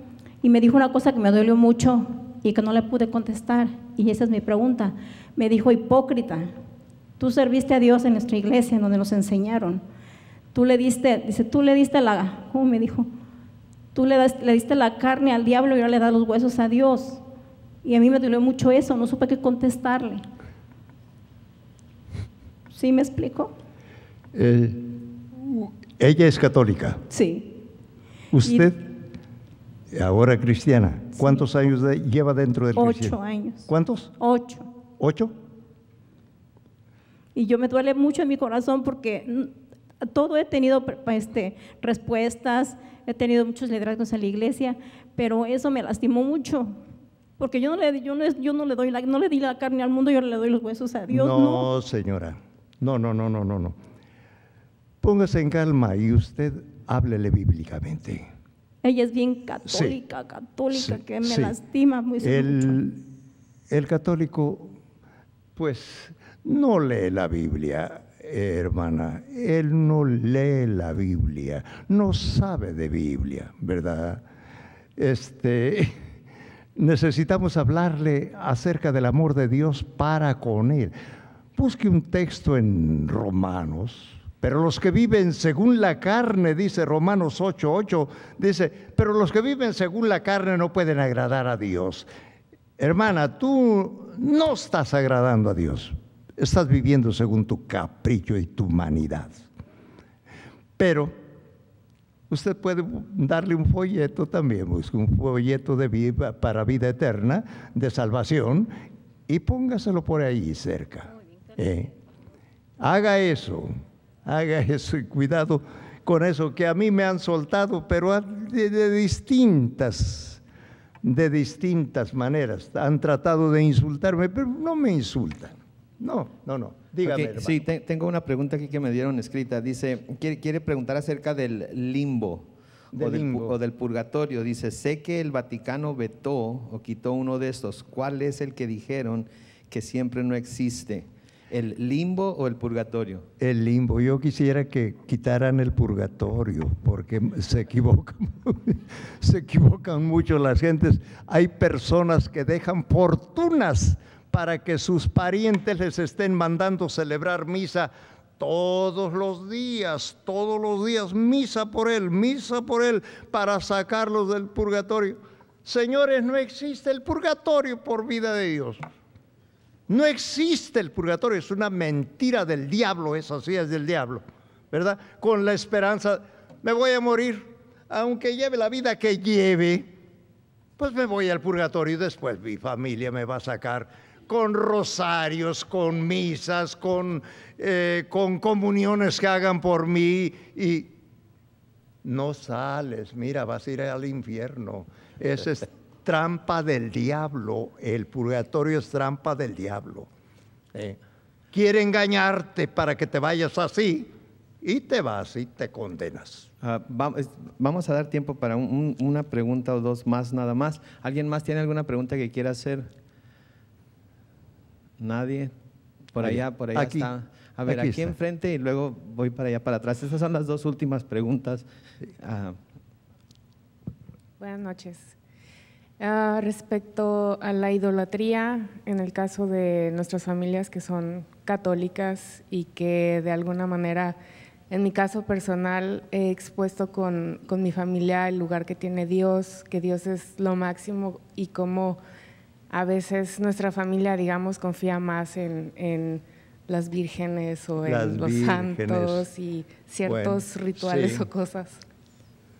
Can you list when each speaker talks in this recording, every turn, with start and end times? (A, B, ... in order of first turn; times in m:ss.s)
0:00.4-0:06.5 A
0:07.2-0:09.8 A
0:10.5-0:13.1 A
0:13.9-0:17.2 A
0:17.8-0:20.2 A
0:22.7-0:23.5 A
0:24.3-0:27.0 B
0:27.1-0:27.5 A
0:28.3-0:28.9 B
0:28.4-0:28.7 A
0:29.9-0:34.1 B
0:32.7-0:34.7 A
0:35.0-0:35.4 B
0:37.3-0:46.8 A
0:47.4-0:51.7 A
0:51.1-0:53.8 B
0:55.0-0:58.3 B
0:58.8-1:02.8 A
0:59.7-1:00.0 B
1:00.7-1:01.6 B
1:02.2-1:03.0 B
1:03.7-1:04.8 B
1:05.6-1:14.2 B
1:15.0-1:15.9 B
1:16.8-1:20.9 B
1:21.6-1:32.1 B
1:32.8-1:39.5 B
1:40.8-1:41.1 B
1:42.3-1:48.7 B
1:49.3-1:51.9 B
1:52.8-2:00.4 B
2:01.0-2:07.6 B
2:07.0-2:23.2 C
2:12.9-2:13.6 B
2:23.4-2:48.8 B
2:49.9-2:59.9 B
3:00.8-3:11.0 B
3:12.0-3:20.1 B
3:20.7-3:21.0 B
3:21.5-3:24.1 B
3:24.6-3:26.5 B
3:26.6-3:32.9 C
3:35.0-3:35.5 C
3:36.1-3:41.6 C
3:36.2-3:37.1 B
3:37.7-3:38.1 B
3:42.2-3:42.6 C
3:44.4-3:45.2 D
3:46.0-3:54.2 D
3:54.7-4:02.0 D
4:02.7-4:11.8 D
4:07.8-4:09.3 B
4:10.0-4:11.2 B